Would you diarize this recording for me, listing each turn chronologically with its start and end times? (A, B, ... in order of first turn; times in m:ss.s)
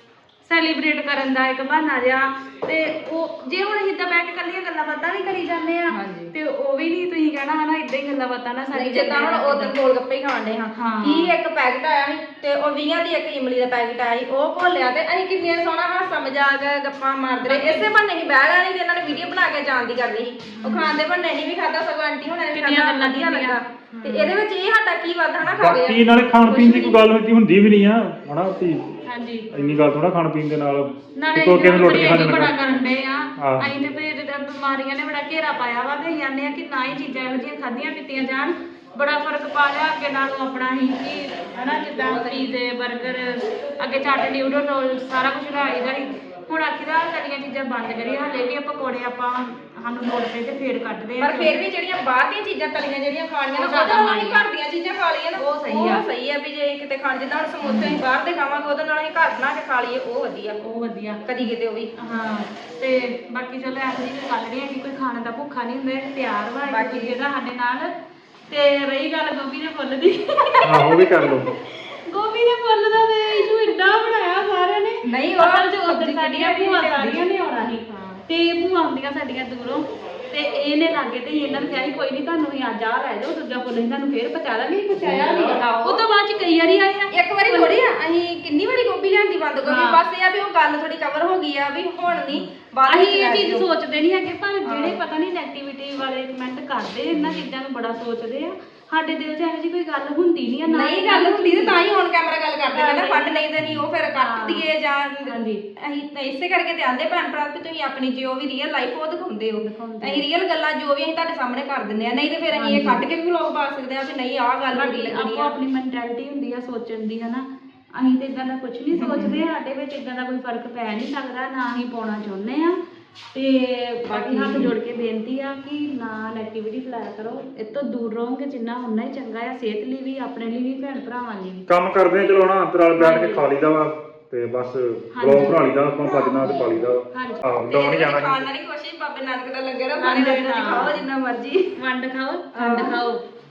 0:00.4-0:09.7 A
0:05.9-0:06.3 B
0:08.7-0:27.0 B
0:10.7-0:11.3 A
0:17.4-0:17.9 A
0:20.5-0:20.9 A
0:22.5-0:24.4 A
0:25.4-0:28.9 C
0:29.1-0:29.5 A
0:29.5-0:32.5 C
0:31.2-0:51.6 A
0:33.4-0:33.7 C
0:42.0-0:42.6 B
0:51.2-1:00.6 B
0:53.5-0:54.4 A
0:55.4-0:56.0 A
0:57.6-0:58.0 A
1:00.6-1:01.2 A
1:01.2-1:01.9 B
1:02.0-1:07.9 A
1:06.6-1:07.2 B
1:08.5-1:11.3 A
1:10.6-1:11.5 C
1:12.1-1:27.8 A
1:15.0-1:17.3 B
1:17.9-1:18.2 B
1:25.0-1:26.0 B
1:27.1-1:33.7 B
1:29.6-1:30.0 A
1:32.3-1:41.8 A
1:34.6-1:35.0 B
1:37.1-1:37.4 B
1:40.6-1:55.6 B
1:42.7-1:44.7 A
1:45.2-1:45.6 A
1:49.6-1:50.2 A
1:52.5-1:53.0 A
1:54.7-1:57.4 A
1:58.0-2:02.8 A
1:58.9-1:59.4 B
2:03.3-2:11.6 A
2:04.1-2:04.7 B
2:11.7-2:18.5 C
2:12.9-2:13.4 A
2:15.1-2:15.6 A
2:17.1-2:17.4 A
2:17.7-2:21.7 B
2:20.0-2:21.0 A
2:21.8-2:23.2 A
2:22.5-2:23.1 B